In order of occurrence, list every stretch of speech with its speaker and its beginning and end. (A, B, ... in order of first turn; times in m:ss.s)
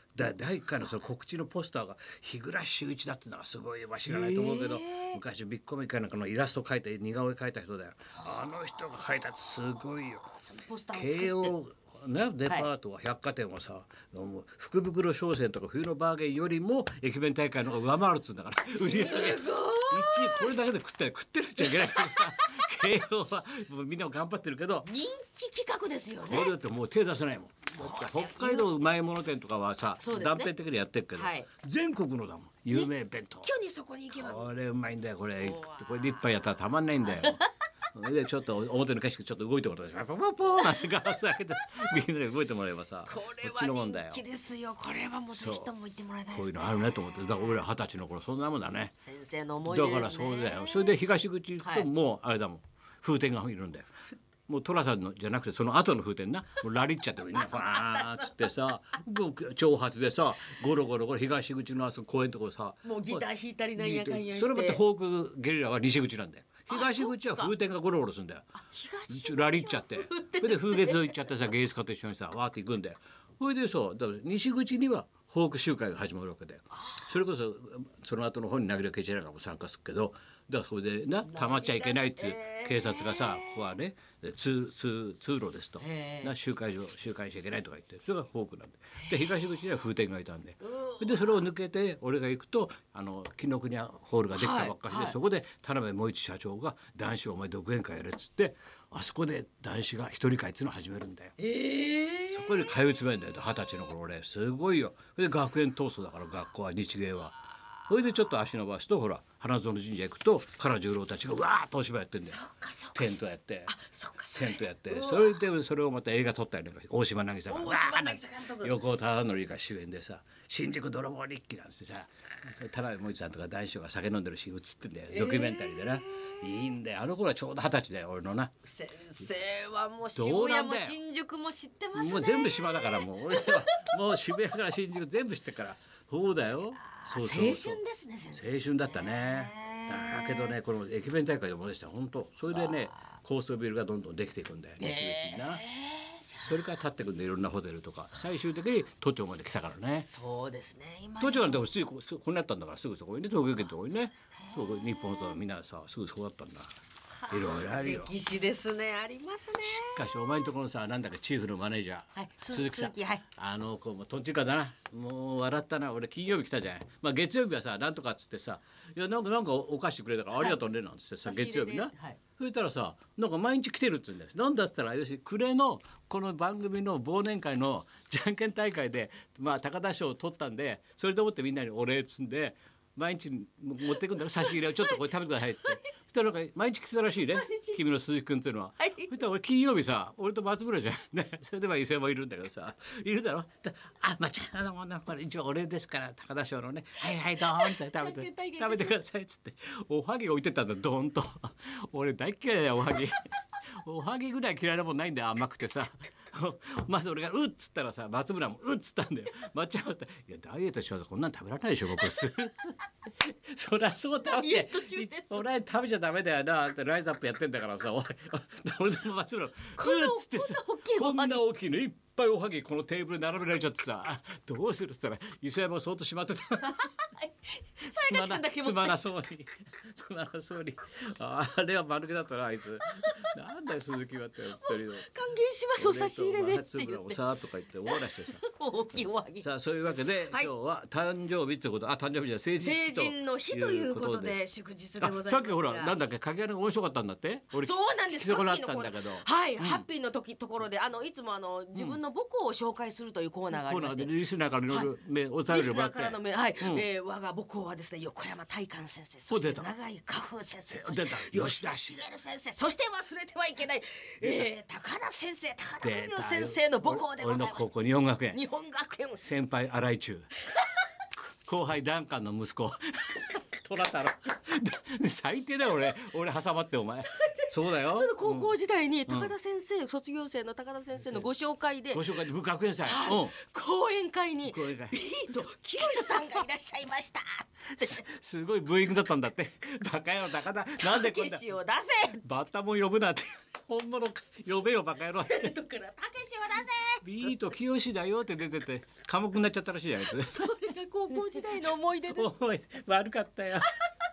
0:00.1-0:10.4 A
0:04.1-0:05.2 B
0:10.4-0:11.5 B
0:10.9-0:24.9 A
0:18.7-0:20.6 B
0:21.6-0:22.9 B
0:24.8-0:26.6 B
0:26.2-0:33.5 A
0:27.8-0:28.7 B
0:30.0-0:30.5 B
0:31.1-0:31.5 B
0:33.4-0:34.5 B
0:34.1-0:44.2 A
0:35.4-0:36.3 B
0:37.0-0:37.5 B
0:40.6-0:41.1 B
0:43.1-0:47.5 B
0:45.3-0:45.7 A
0:46.3-0:49.0 A
0:49.0-0:50.9 B
0:49.6-0:53.9 A
0:51.6-0:51.9 B
0:54.5-1:08.5 A
0:57.3-0:58.4 B
1:02.8-1:04.8 B
1:06.7-1:07.5 B
1:08.7-1:11.2 B
1:09.1-1:41.4 A
1:21.2-1:23.7 B
1:25.8-1:26.3 B
1:30.6-1:31.4 B
1:34.3-1:35.2 B
1:41.4-1:42.7 B
1:42.3-1:47.4 A
1:47.9-1:52.4 A
1:52.2-1:55.4 B
1:52.9-1:53.7 A
1:54.3-2:08.5 A
1:57.5-1:58.8 B
2:05.1-2:06.7 B
2:08.6-2:14.4 B
2:10.1-2:11.0 A
2:11.9-2:17.8 A
2:17.0-2:20.5 B
2:18.3-2:25.6 A
2:22.5-2:22.9 B
2:24.8-2:26.6 B
2:26.4-2:30.1 A
2:30.1-2:31.6 B
2:31.2-2:36.7 A
2:33.6-2:35.4 B
2:37.2-2:40.1 B
2:37.3-2:38.1 A
2:39.6-3:47.0 A
2:42.2-2:43.3 B
2:51.2-2:52.2 B
3:04.4-3:05.6 B
3:07.3-3:07.8 B
3:08.8-3:09.1 B
3:17.0-3:19.0 B
3:34.2-3:35.5 B
3:39.8-3:41.4 B
3:46.6-3:49.0 B
3:47.8-3:55.1 A
3:54.6-3:57.2 B
3:55.8-3:58.4 A
3:57.8-3:59.5 B
3:59.4-4:04.4 A
4:02.6-4:05.9 B
4:05.0-4:09.8 A
4:07.5-4:14.1 B
4:13.5-4:16.8 A
4:15.5-4:27.7 B
4:19.3-4:19.7 A
4:20.7-4:22.0 A
4:25.8-4:28.4 A
4:28.3-4:29.3 B
4:29.2-4:30.3 A
4:31.1-4:38.5 A
4:37.2-4:42.2 B
4:41.9-4:43.3 A
4:42.8-4:48.0 B
4:44.4-4:46.4 A
4:47.7-4:51.5 A
4:50.8-4:52.2 B
4:52.2-4:55.6 A
4:55.1-4:57.4 B
4:57.0-5:00.5 A
5:00.0-5:02.4 B
5:02.1-5:03.8 A